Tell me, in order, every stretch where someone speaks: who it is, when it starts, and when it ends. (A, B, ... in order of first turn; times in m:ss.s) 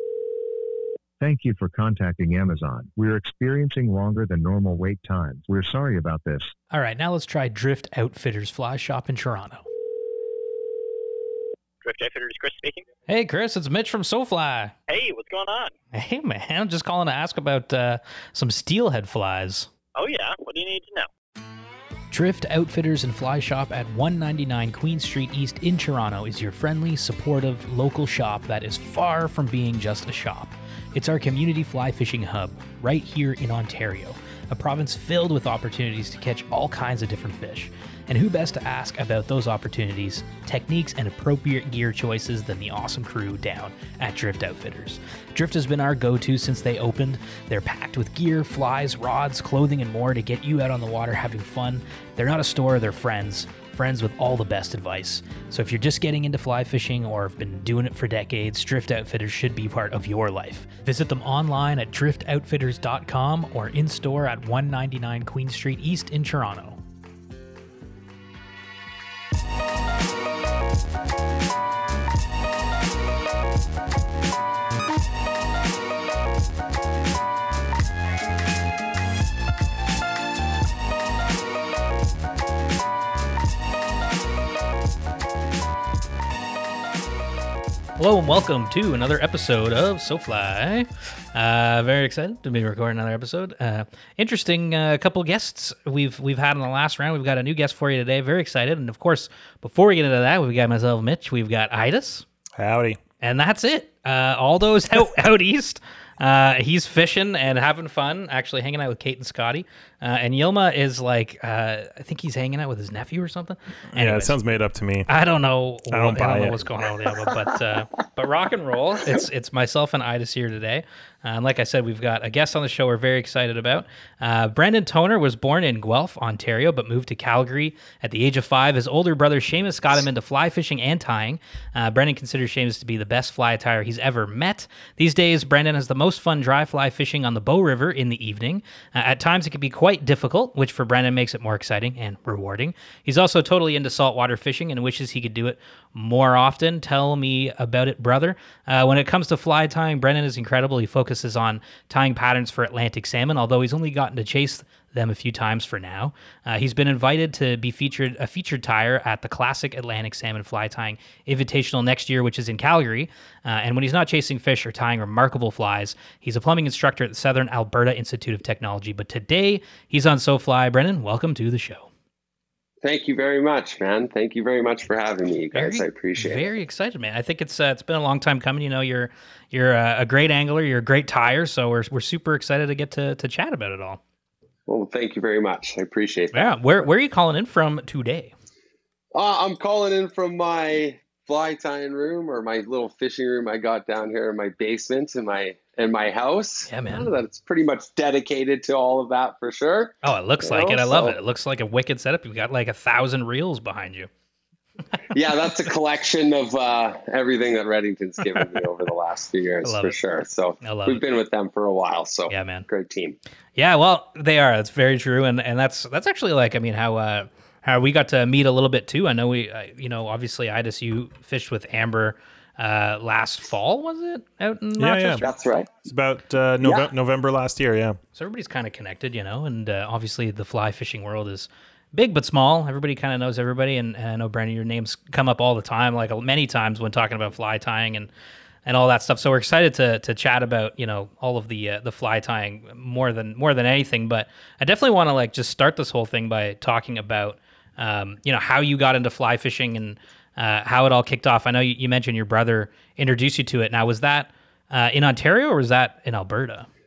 0:01.2-0:06.5 A
0:06.7-0:09.6 B
0:11.8-0:12.9 C
0:13.1-0:14.7 B
0:14.9-0:15.7 C
0:15.9-0:19.7 B
0:20.0-0:21.1 C
0:22.1-1:06.8 B
1:28.0-1:42.2 B
1:42.5-1:43.0 D
1:43.2-1:54.4 B
1:53.9-1:55.1 D
1:55.1-2:51.9 B
1:55.9-1:56.6 D
2:52.8-2:56.5 E
2:55.5-3:04.0 B
3:04.7-3:06.5 E
3:06.3-3:08.3 B
3:09.1-3:21.2 E
3:16.7-3:17.1 B
3:20.0-3:24.1 B
3:25.1-3:33.2 E
3:29.6-3:30.0 B
3:30.6-3:31.0 B
3:32.3-3:32.7 B
3:33.6-3:45.3 B
3:44.8-3:45.2 D
3:45.2-3:45.7 E
3:45.8-3:48.0 D
3:46.6-3:46.9 E
3:48.1-3:58.1 B
3:58.6-4:16.7 B